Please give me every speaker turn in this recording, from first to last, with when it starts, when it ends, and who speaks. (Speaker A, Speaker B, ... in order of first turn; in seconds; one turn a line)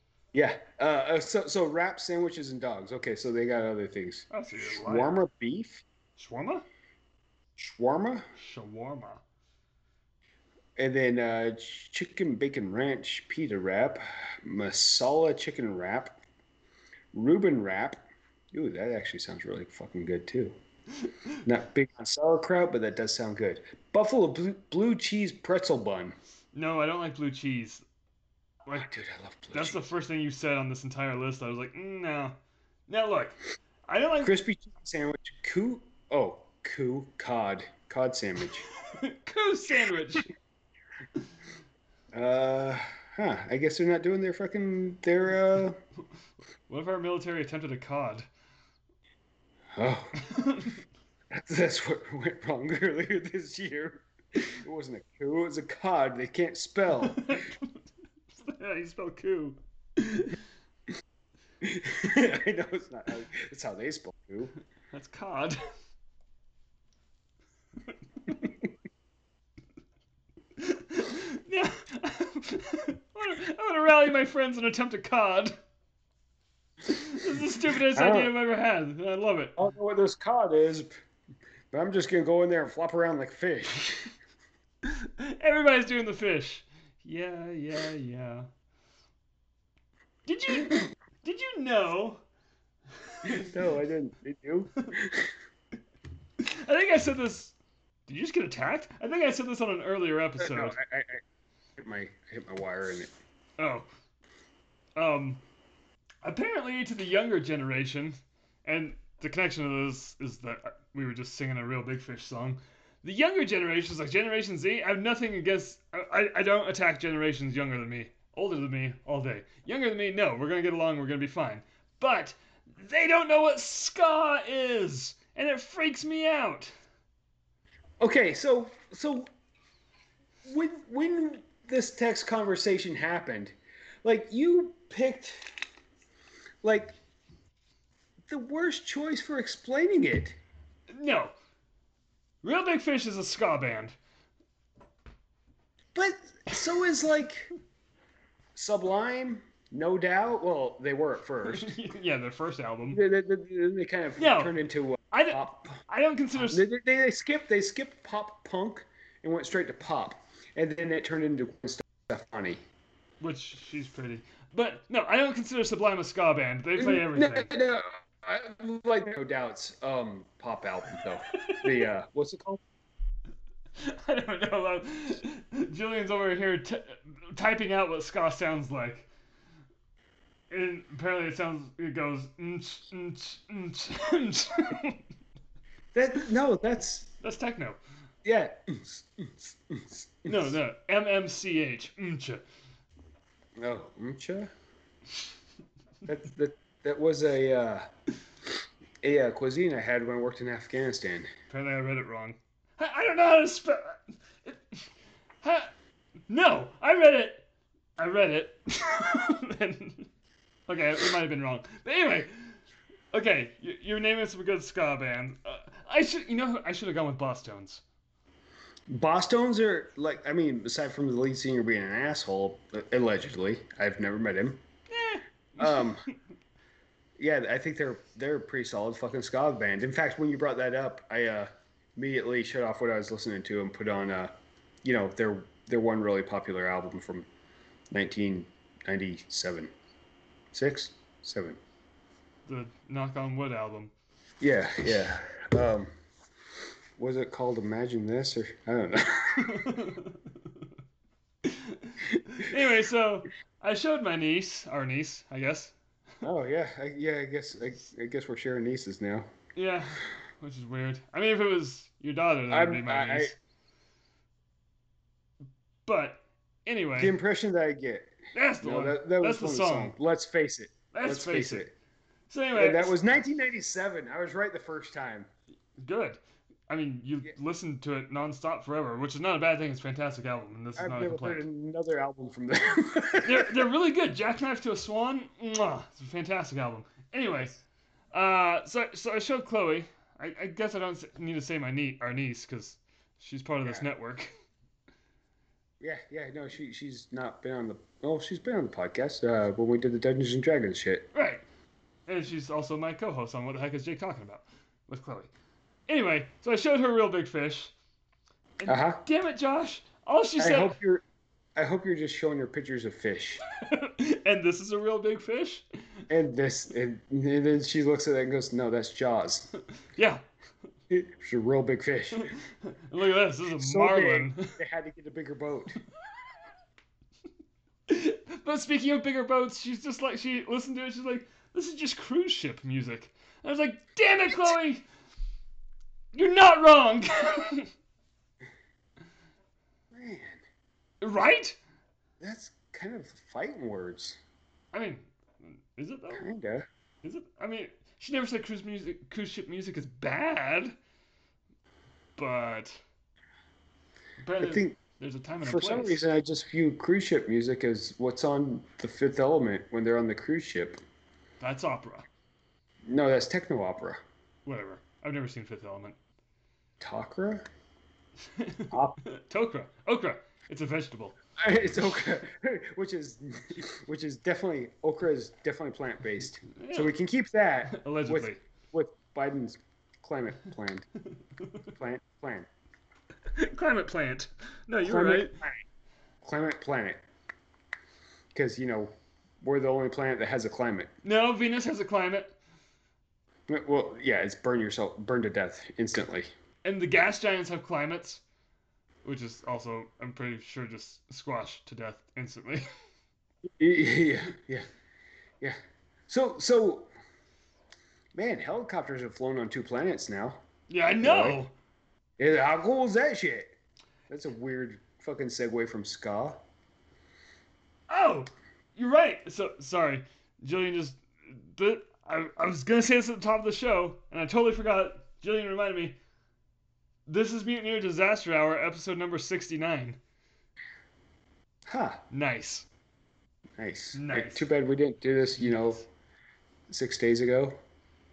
Speaker A: 0.3-5.8
Speaker B: 4.3-5.1
Speaker B: 6.2-6.7
Speaker A: 7.6-8.3
Speaker B: 8.3-9.2
Speaker A: 10.8-16.2
Speaker A: 17.1-20.6
Speaker A: 21.4-26.2
Speaker B: 26.5-27.8
Speaker A: 28.7-29.9
Speaker B: 29.5-32.4
Speaker B: 32.9-34.3
Speaker A: 34.2-38.6
Speaker B: 38.9-40.3
Speaker A: 42.1-45.8
Speaker B: 46.7-48.3
Speaker A: 49.7-50.1
Speaker B: 50.3-50.7
Speaker A: 51.3-57.4
Speaker B: 57.0-57.7
Speaker B: 58.4-60.4
Speaker A: 61.6-64.5
Speaker B: 64.9-65.6
Speaker B: 67.9-68.3
Speaker B: 70.6-75.5
Speaker B: 76.8-79.6
Speaker A: 77.8-78.3
Speaker A: 79.6-80.9
Speaker A: 81.7-84.1
Speaker B: 84.8-88.5
Speaker B: 90.3-92.2
Speaker B: 93.1-93.5
Speaker A: 93.2-95.3
Speaker B: 96.4-97.5
Speaker B: 98.1-100.8
Speaker A: 100.4-101.2
Speaker A: 101.8-103.1
Speaker B: 103.6-103.9
Speaker B: 105.0-105.4
Speaker B: 106.2-126.7
Speaker A: 128.0-129.3
Speaker A: 130.4-135.5
Speaker A: 136.6-137.0
Speaker A: 138.3-140.4
Speaker B: 140.9-141.3
Speaker B: 142.4-143.9
Speaker A: 145.9-147.5
Speaker A: 148.5-151.7
Speaker B: 151.4-153.0
Speaker A: 152.9-155.8
Speaker B: 154.2-154.5
Speaker B: 155.1-156.6
Speaker A: 156.4-162.6
Speaker B: 163.2-167.5
Speaker A: 166.8-172.6
Speaker B: 171.5-171.7
Speaker B: 173.8-179.1
Speaker B: 180.5-185.0
Speaker A: 185.9-187.1
Speaker B: 187.2-187.8
Speaker A: 188.2-190.5
Speaker B: 190.3-192.4
Speaker A: 193.6-194.5
Speaker A: 196.1-197.9
Speaker A: 199.0-201.3
Speaker B: 201.5-204.8
Speaker B: 205.4-205.7
Speaker B: 206.3-207.4
Speaker B: 208.0-210.1
Speaker B: 210.7-212.5
Speaker B: 213.1-217.8
Speaker A: 218.9-224.6
Speaker B: 224.9-225.9
Speaker A: 225.6-226.0
Speaker A: 227.2-234.3
Speaker A: 234.8-237.3
Speaker A: 237.9-239.7
Speaker A: 240.5-241.6
Speaker B: 242.4-243.9
Speaker A: 244.4-245.9
Speaker A: 247.0-249.7
Speaker B: 249.4-250.2
Speaker B: 251.4-255.7
Speaker A: 256.2-259.3
Speaker B: 259.6-263.3
Speaker A: 262.5-263.3
Speaker B: 265.9-267.1
Speaker A: 267.0-271.7
Speaker B: 268.3-269.9
Speaker B: 270.9-271.7
Speaker B: 272.3-272.9
Speaker A: 272.5-275.3
Speaker B: 275.8-281.4
Speaker A: 280.8-283.6
Speaker B: 283.2-287.5
Speaker B: 288.1-294.3
Speaker A: 295.8-301.1
Speaker B: 301.1-301.4
Speaker B: 302.1-305.3
Speaker B: 305.9-307.7
Speaker B: 308.6-310.8
Speaker A: 308.7-309.0
Speaker A: 310.4-311.0
Speaker A: 311.6-313.4
Speaker B: 313.6-315.6
Speaker A: 316.1-319.5
Speaker B: 319.9-320.2
Speaker A: 320.9-322.3
Speaker B: 322.2-324.6
Speaker A: 323.5-325.8
Speaker B: 327.9-334.8
Speaker B: 336.1-337.7
Speaker A: 339.9-340.4
Speaker B: 341.0-341.6
Speaker A: 342.2-344.2
Speaker B: 344.7-346.3
Speaker A: 346.1-346.6
Speaker B: 347.0-350.8
Speaker B: 352.2-352.8
Speaker B: 354.2-356.0
Speaker A: 354.4-354.8
Speaker A: 355.4-360.8
Speaker B: 361.4-362.1
Speaker A: 362.9-364.0
Speaker B: 364.4-366.0
Speaker A: 366.8-367.5
Speaker B: 368.4-371.1
Speaker A: 368.7-369.0
Speaker A: 371.4-380.8
Speaker B: 376.5-376.9
Speaker B: 377.7-378.4
Speaker A: 381.8-382.5
Speaker B: 383.3-385.4
Speaker A: 384.8-385.6
Speaker A: 386.2-387.0
Speaker A: 388.3-390.9
Speaker B: 391.0-392.3
Speaker A: 393.5-396.3
Speaker B: 396.6-398.2
Speaker B: 399.0-402.7
Speaker A: 403.5-404.7
Speaker A: 406.1-406.9
Speaker A: 408.1-410.4
Speaker B: 410.7-411.5
Speaker A: 411.0-411.4
Speaker A: 412.2-413.5
Speaker A: 414.1-416.4
Speaker B: 417.9-426.0
Speaker B: 427.1-430.0
Speaker A: 431.7-432.0
Speaker B: 432.1-432.7
Speaker A: 433.6-435.8
Speaker B: 433.9-434.5
Speaker B: 435.4-435.8
Speaker A: 436.7-437.6